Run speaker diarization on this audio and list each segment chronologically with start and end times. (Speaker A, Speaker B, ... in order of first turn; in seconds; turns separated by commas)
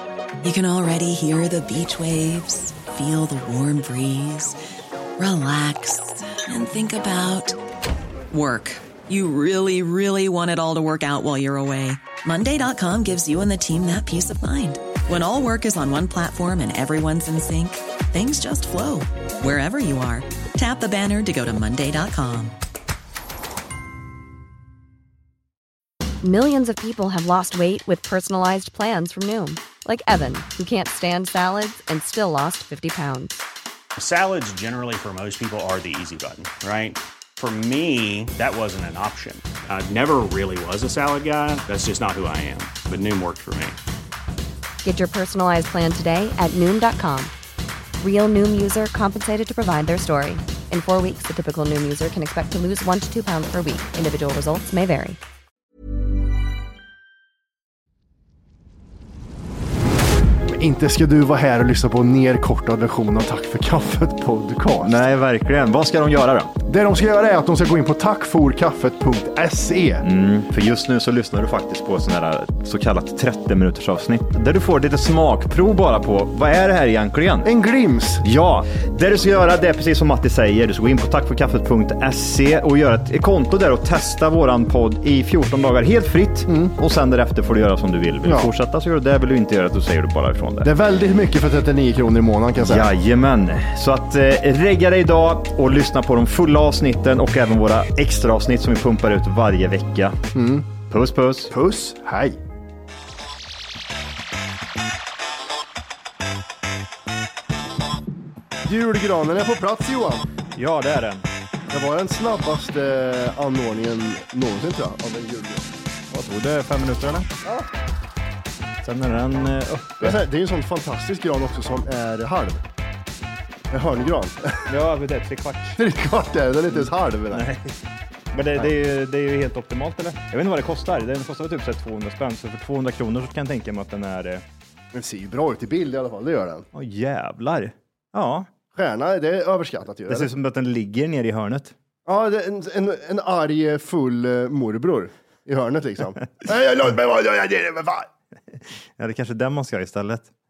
Speaker A: 0.4-4.6, Speaker A: 5.2-7.5, Speaker A: 8.3-22.5, Speaker B: 26.2-33.4, Speaker C: 34.0-43.8, Speaker B: 44.8-47.3, Speaker B: 48.0-55.2, Speaker D: 60.5-65.0, Speaker E: 64.8-66.5, Speaker D: 66.7-70.0, Speaker E: 70.0-77.5, Speaker D: 77.4-78.2, Speaker E: 78.2-90.7, Speaker D: 86.5-86.7, Speaker D: 88.2-88.5, Speaker D: 90.6-92.9, Speaker E: 92.6-100.2, Speaker D: 100.3-100.7, Speaker E: 100.9-101.5, Speaker D: 101.5-102.4, Speaker D: 108.6-110.2, Speaker E: 110.5-111.2, Speaker D: 111.7-115.7, Speaker E: 116.1-117.3, Speaker D: 117.4-117.7, Speaker E: 118.8-120.2, Speaker D: 120.0-122.6, Speaker D: 123.7-124.7, Speaker E: 124.7-125.8, Speaker D: 125.8-127.5, Speaker E: 126.7-127.8, Speaker E: 128.3-134.4, Speaker D: 134.9-136.7, Speaker E: 136.7-138.5, Speaker D: 138.7-140.3, Speaker E: 140.1-141.7, Speaker D: 142.1-148.1, Speaker E: 148.5-150.3